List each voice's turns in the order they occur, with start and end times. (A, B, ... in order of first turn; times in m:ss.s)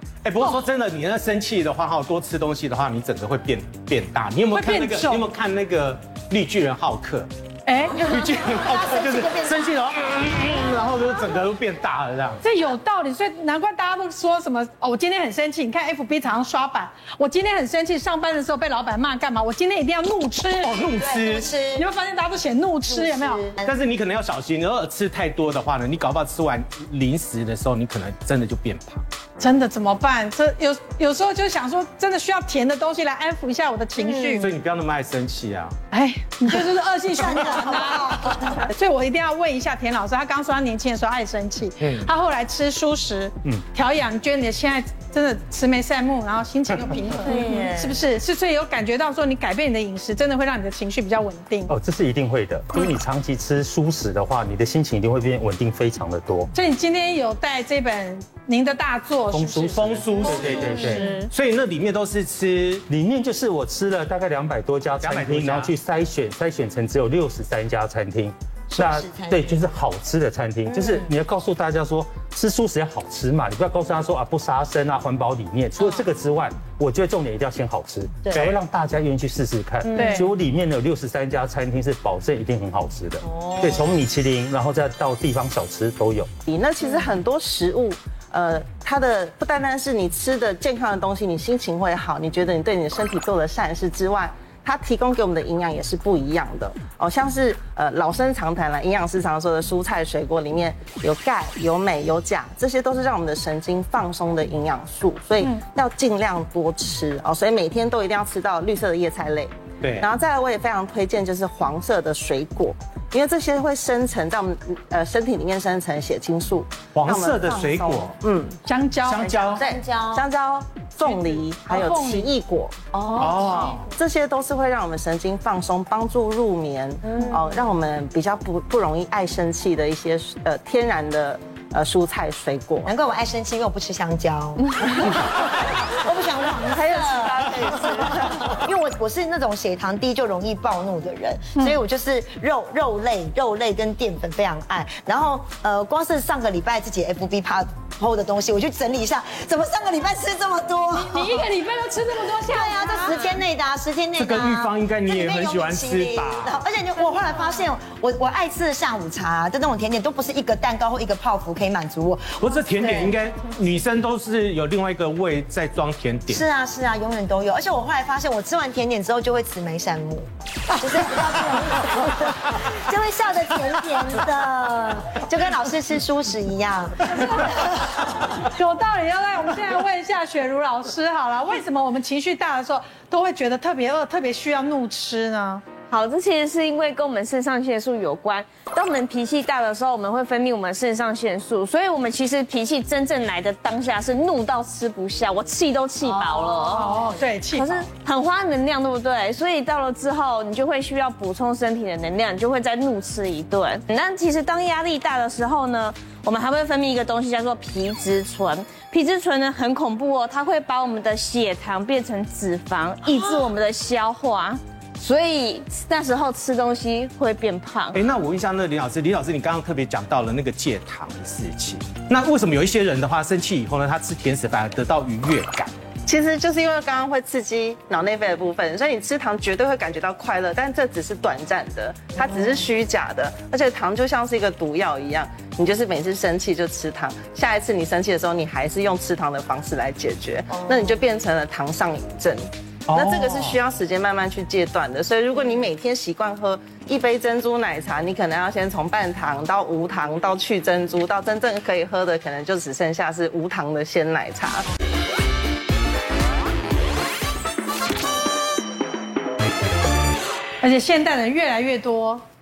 0:00.2-0:07.3 A
0:04.5-0:05.3 B
0:07.7-0:08.0 B
0:07.9-0:09.8 C
0:08.0-0:12.4 A
0:12.4-0:20.8 B
0:20.6-0:21.5 A
0:21.0-0:21.8 C
0:21.7-0:23.4 B
0:22.9-0:23.8 C
0:23.6-0:29.0 A
0:29.4-0:34.5 B
0:34.0-0:34.5 C
0:34.4-0:35.8 A
0:35.9-0:51.7 B
0:37.2-0:38.6 C
0:41.8-0:42.1 A
0:47.2-0:48.0 C
0:51.7-0:56.5 D
0:56.5-1:01.3 B
0:59.3-1:01.1 D
0:59.7-1:02.8 A
1:00.6-1:01.1 C
1:02.9-1:26.3 D
1:05.0-1:05.7 A
1:08.7-1:09.6 C
1:10.7-1:11.1 C
1:19.9-1:20.2 C
1:20.0-1:20.3 B
1:23.3-1:23.9 C
1:26.5-1:58.6 E
1:49.8-1:50.1 A
1:56.9-1:58.2 A
1:58.6-1:59.4 B
1:59.0-1:59.6 A
1:59.2-2:12.9 E
1:59.6-2:00.2 C
2:01.0-2:02.3 B
2:02.9-2:03.6 C
2:03.1-2:03.9 A
2:07.0-2:07.6 C
2:12.8-2:31.4 C
2:16.6-2:18.6 E
2:31.0-2:33.4 B
2:32.4-2:43.2 C
2:34.2-2:36.6 A
2:42.4-2:46.4 A
2:46.3-2:58.0 C
2:57.1-2:57.8 B
2:58.3-3:05.6 B
3:05.9-3:17.0 F
3:16.1-3:16.4 C
3:16.6-3:17.9 B
3:17.5-3:38.0 F
3:37.9-3:45.7 A
3:46.0-4:14.7 E
4:00.5-4:00.9 C
4:02.9-4:03.6 A
4:20.6-4:22.2 B